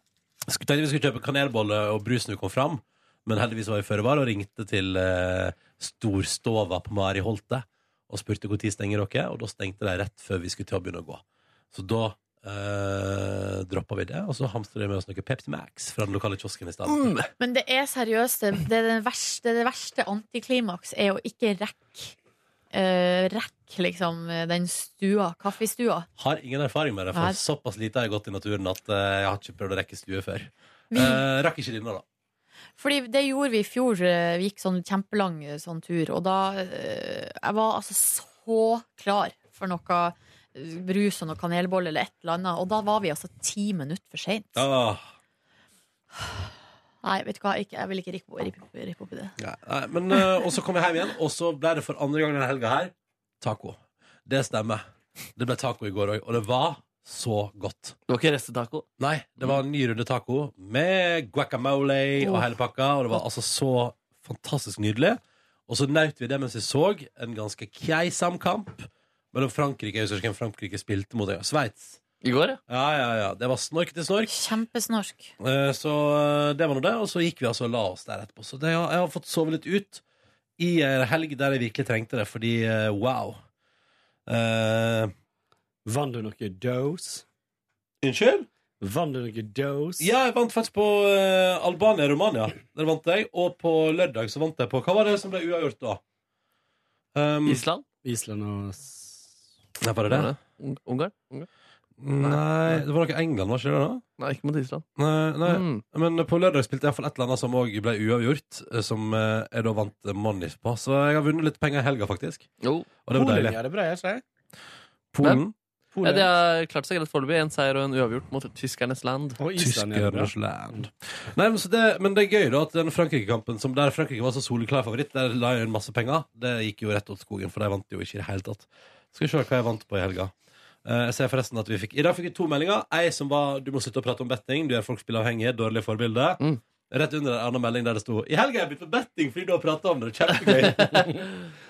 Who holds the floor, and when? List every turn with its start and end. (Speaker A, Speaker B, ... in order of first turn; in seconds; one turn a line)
Speaker A: 0.5-17.1
Speaker B: 16.9-17.3
Speaker C: 17.4-22.1
Speaker C: 22.7-26.1
Speaker A: 26.2-32.0
Speaker C: 30.9-31.2
Speaker C: 32.8-44.6
Speaker A: 44.5-45.0
Speaker C: 47.0-49.4
Speaker A: 49.4-54.9
Speaker A: 55.4-58.0
Speaker B: 58.1-58.9
Speaker A: 59.0-72.0
Speaker B: 72.2-72.6
Speaker A: 72.7-74.3
Speaker C: 74.3-75.3
Speaker A: 75.4-80.0
Speaker A: 80.6-83.4
Speaker A: 84.3-85.1
Speaker D: 85.9-87.2
Speaker A: 88.0-88.5
Speaker D: 88.8-90.1
Speaker A: 90.0-96.0
Speaker A: 97.2-97.6
Speaker B: 97.5-97.8
Speaker D: 98.0-99.2
Speaker A: 99.8-100.3
Speaker B: 100.1-101.5
Speaker A: 102.0-104.0
Speaker B: 102.2-102.8
Speaker B: 104.2-104.8
Speaker A: 105.0-112.5
Speaker B: 105.5-105.8
Speaker B: 112.6-112.9
Speaker A: 113.1-113.6
Speaker D: 113.1-114.2
Speaker A: 115.1-115.5
Speaker D: 116.0-116.3
Speaker B: 116.0-119.4
Speaker D: 119.4-120.3
Speaker A: 119.6-130.3
Speaker A: 130.8-141.3